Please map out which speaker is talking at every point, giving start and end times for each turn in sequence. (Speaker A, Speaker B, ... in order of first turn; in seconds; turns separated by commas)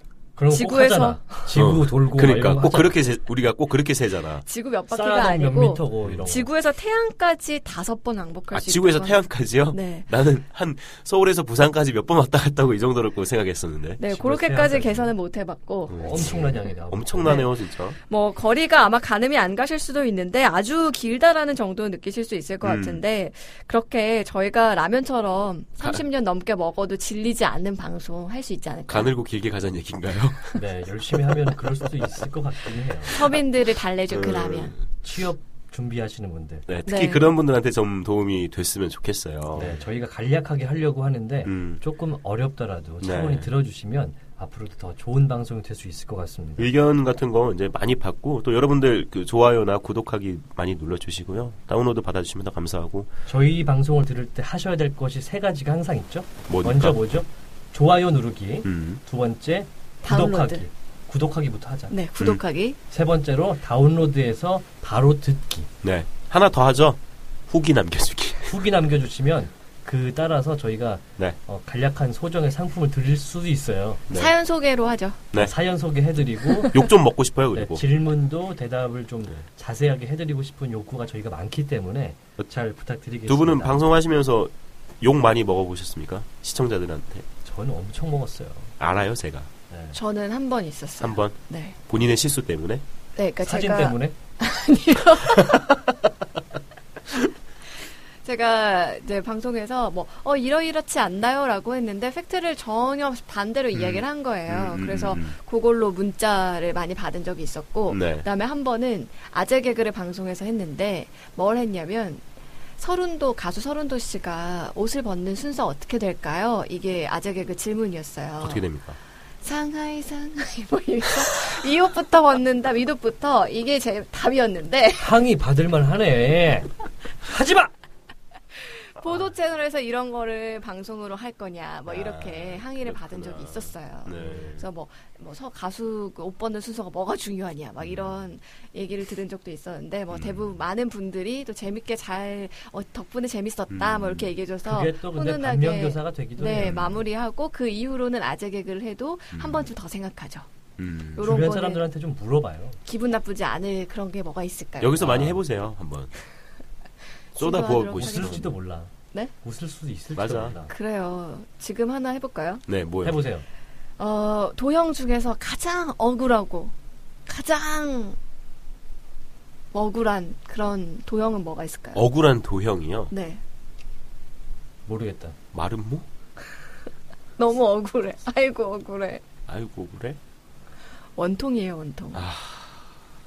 Speaker A: 0.4-3.0, Speaker B: 0.5-1.4, Speaker C: 1.5-4.4, Speaker B: 4.4-10.1, Speaker A: 4.9-6.5, Speaker C: 8.5-14.0, Speaker B: 14.0-16.2, Speaker A: 14.0-15.1, Speaker A: 15.9-17.5, Speaker C: 15.9-18.0, Speaker B: 17.2-17.5, Speaker B: 18.0-29.1, Speaker C: 22.6-23.0, Speaker C: 28.9-30.6, Speaker A: 30.6-33.2, Speaker B: 33.1-34.8, Speaker C: 34.1-34.8, Speaker A: 35.0-36.7, Speaker C: 36.7-39.8, Speaker B: 36.9-37.3, Speaker A: 39.5-46.7, Speaker C: 41.5-41.8, Speaker C: 43.0-43.5, Speaker C: 46.6-53.1, Speaker A: 53.3-62.0, Speaker C: 56.5-57.2, Speaker C: 58.7-59.0, Speaker B: 60.0-60.6, Speaker B: 61.9-62.8, Speaker A: 62.9-65.7, Speaker C: 65.8-68.6, Speaker A: 68.5-74.0, Speaker C: 74.1-74.3, Speaker B: 74.1-75.2, Speaker A: 75.4-76.8, Speaker C: 76.7-77.8, Speaker A: 77.5-83.9, Speaker C: 83.3-87.3, Speaker A: 87.4-88.7, Speaker C: 88.8-89.5, Speaker A: 89.7-90.0, Speaker B: 89.9-91.8, Speaker C: 91.0-92.8, Speaker B: 93.2-95.8, Speaker A: 93.4-94.2, Speaker B: 98.2-112.2, Speaker C: 103.7-105.4, Speaker C: 107.9-108.3, Speaker B: 112.8-118.6, Speaker C: 118.4-119.0, Speaker B: 119.4-125.1, Speaker A: 125.0-127.7, Speaker B: 128.6-150.5, Speaker C: 131.9-134.7, Speaker C: 137.8-138.2, Speaker C: 140.1-140.6, Speaker C: 143.7-144.3, Speaker A: 144.7-146.9, Speaker C: 146.5-147.0, Speaker C: 149.3-149.7, Speaker C: 150.8-151.3, Speaker B: 151.2-151.8, Speaker A: 151.2-152.8, Speaker B: 152.8-155.0, Speaker C: 154.8-156.1, Speaker A: 155.0-155.4, Speaker B: 157.3-158.5, Speaker C: 157.4-158.5, Speaker A: 157.9-160.7, Speaker C: 160.2-160.6, Speaker B: 160.7-162.6, Speaker C: 162.7-163.2, Speaker A: 163.0-163.5, Speaker B: 164.0-166.7, Speaker B: 167.3-168.2, Speaker B: 169.7-172.1, Speaker C: 171.9-173.1, Speaker B: 173.1-173.4, Speaker A: 174.9-175.4, Speaker C: 175.5-176.1, Speaker B: 177.4-179.2, Speaker C: 179.5-180.2, Speaker B: 181.2-182.2, Speaker C: 182.1-182.8